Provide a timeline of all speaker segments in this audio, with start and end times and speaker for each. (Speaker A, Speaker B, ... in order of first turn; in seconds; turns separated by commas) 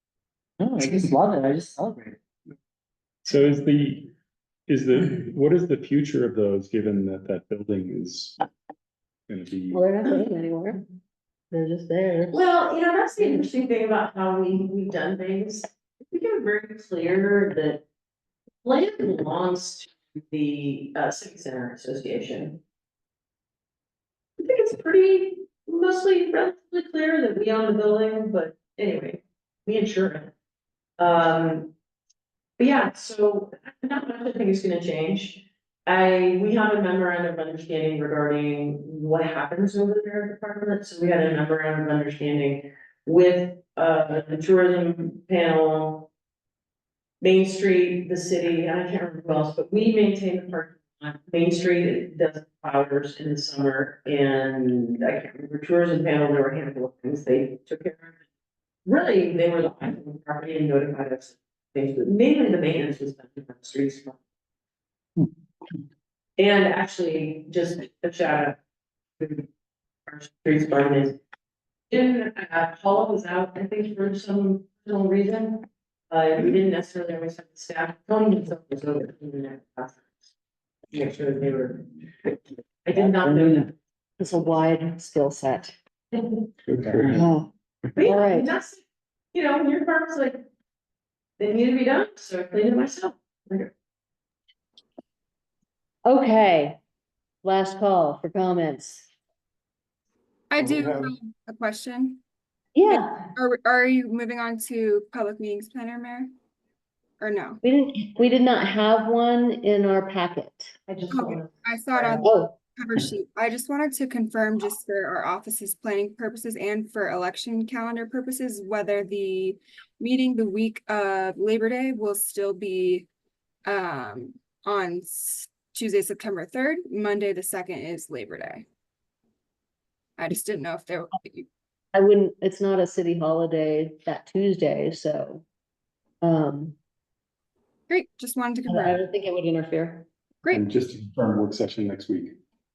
Speaker A: 0.6-1.9, Speaker B: 3.2-4.1, Speaker B: 4.7-8.4, Speaker B: 9.3-9.8, Speaker C: 9.7-10.8, Speaker C: 11.5-12.3, Speaker D: 12.3-17.8, Speaker D: 18.6-22.6, Speaker D: 24.4-30.3, Speaker D: 31.0-31.7, Speaker D: 32.6-46.1, Speaker D: 47.2-58.2, Speaker D: 58.9-64.2, Speaker D: 66.4-68.6, Speaker D: 69.2-69.5, Speaker D: 70.1-71.2, Speaker D: 71.9-80.2, Speaker D: 80.9-83.8, Speaker A: 83.2-83.5, Speaker C: 84.2-85.8, Speaker D: 86.1-86.5, Speaker B: 86.7-87.3, Speaker A: 86.9-87.1, Speaker C: 87.1-87.5, Speaker D: 88.0-90.4, Speaker C: 88.0-88.5, Speaker D: 91.4-93.7, Speaker C: 96.0-96.8, Speaker C: 97.4-99.1, Speaker E: 100.5-102.2, Speaker C: 102.8-103.3, Speaker E: 102.9-106.3, Speaker E: 107.2-107.6, Speaker C: 107.6-111.0, Speaker E: 111.1-123.1, Speaker C: 112.2-112.5, Speaker E: 123.7-128.7, Speaker E: 130.2-131.5, Speaker C: 131.9-135.4, Speaker C: 136.2-136.8, Speaker E: 137.9-139.0, Speaker C: 138.7-140.1, Speaker B: 140.5-142.4